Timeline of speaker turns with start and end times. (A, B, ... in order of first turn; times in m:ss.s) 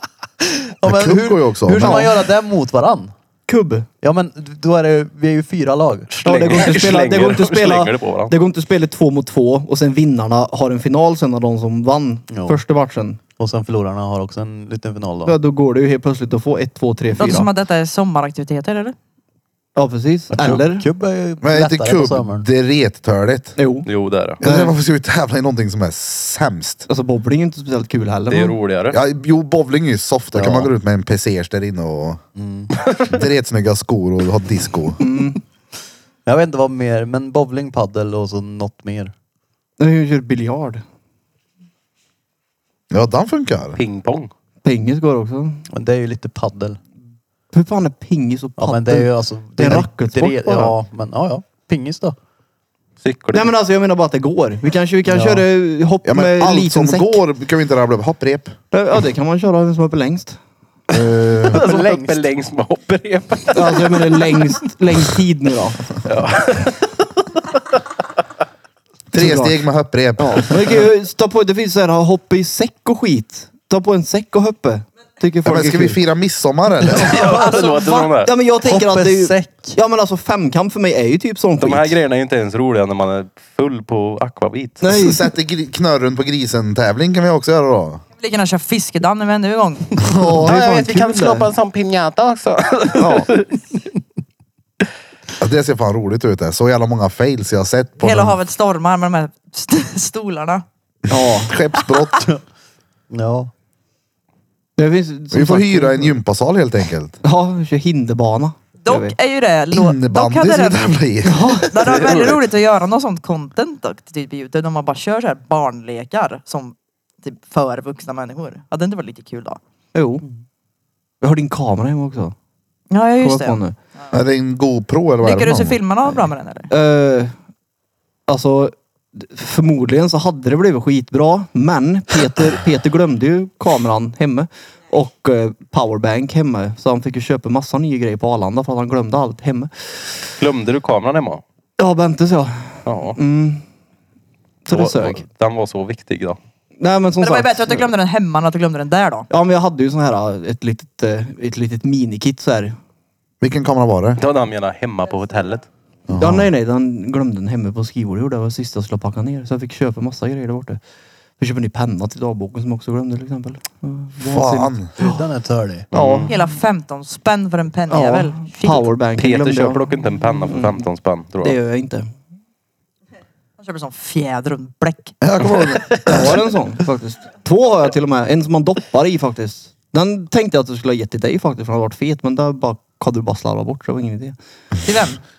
0:00.8-0:03.1 A
0:00.8-0:02.0 B
0:01.7-0:02.2 C
0:03.5-0:03.9 C
0:04.0-0:06.1 A
0:06.1-0:08.3 D
0:06.2-0:13.2 C
0:12.3-0:12.6 A
0:13.4-0:15.4 A
0:15.2-0:17.5 C
0:17.2-0:18.9 E
0:19.8-0:20.9 C
0:20.3-0:22.4 A
0:21.4-0:23.6 B
0:23.6-0:23.9 C
0:23.8-0:24.4 D
0:24.4-0:24.7 C
0:24.4-0:26.8 B
0:26.9-0:28.6 C
0:28.3-0:29.0 D
0:28.9-0:32.2 B
0:30.3-0:30.7 A
0:32.4-0:32.7 A
0:33.0-0:35.0 B
0:35.0-0:35.4 C
0:36.2-0:39.1 A
0:39.8-0:40.8 C
0:42.9-0:43.8 B
0:43.8-0:44.3 D
0:44.6-0:45.6 C
0:45.7-0:46.8 A
0:47.5-0:50.8 C
0:48.6-0:52.2 A
0:53.0-0:53.5 D
0:53.3-0:57.2 C
0:55.1-0:55.4 A
0:56.0-0:58.5 B
0:58.7-1:00.4 C
1:00.9-1:01.6 B
1:01.5-1:04.4 D
1:01.5-1:02.2 A
1:03.5-1:05.8 C
1:06.0-1:06.9 D
1:09.1-1:10.8 B
1:09.1-1:09.6 C
1:10.2-1:16.0 C
1:15.4-1:17.2 B
1:16.9-1:18.3 D
1:17.1-1:17.6 A
1:17.1-1:21.9 C
1:18.5-1:19.8 A
1:21.6-1:24.8 D
1:24.8-1:25.3 C
1:24.9-1:28.0 B
1:28.2-1:30.0 E
1:30.0-1:30.5 B
1:30.2-1:31.5 C
1:30.4-1:33.8 D
1:32.9-1:33.3 C
1:35.4-1:38.4 B
1:38.0-1:40.6 E
1:41.1-1:41.5 C
1:41.2-1:42.2 B
1:43.1-1:43.5 A
1:44.8-1:46.2 C
1:45.3-1:47.2 B
1:47.2-1:49.2 C
1:48.8-1:51.0 E
1:49.7-1:51.6 B
1:51.2-1:51.7 C
1:51.5-1:59.6 E
1:51.8-1:52.4 D
1:59.9-2:00.2 C
2:01.2-2:02.3 C
2:02.9-2:04.1 E
2:03.2-2:03.7 C
2:04.1-2:05.8 B
2:05.2-2:06.7 E
2:06.7-2:07.3 C
2:08.3-2:19.7 C
2:20.4-2:21.4 D
2:21.8-2:23.6 C
2:22.8-2:23.2 D
2:24.6-2:25.2 C
2:24.7-2:26.4 D
2:26.8-2:27.9 C
2:27.2-2:29.3 E
2:29.3-2:32.8 C
2:33.4-2:34.2 B
2:34.2-2:35.7 D
2:36.1-2:36.5 B
2:36.2-2:40.8 C
2:41.4-2:45.2 C
2:44.2-2:44.9 B
2:45.0-2:46.3 A
2:45.9-2:46.3 D
2:45.9-2:46.3 C
2:46.3-2:48.9 E
2:47.9-2:50.8 C
2:49.2-2:51.6 D
2:51.4-2:52.1 C
2:53.6-2:55.2 E
2:55.2-2:56.2 B
2:56.0-3:04.3 C
3:04.8-3:05.2 E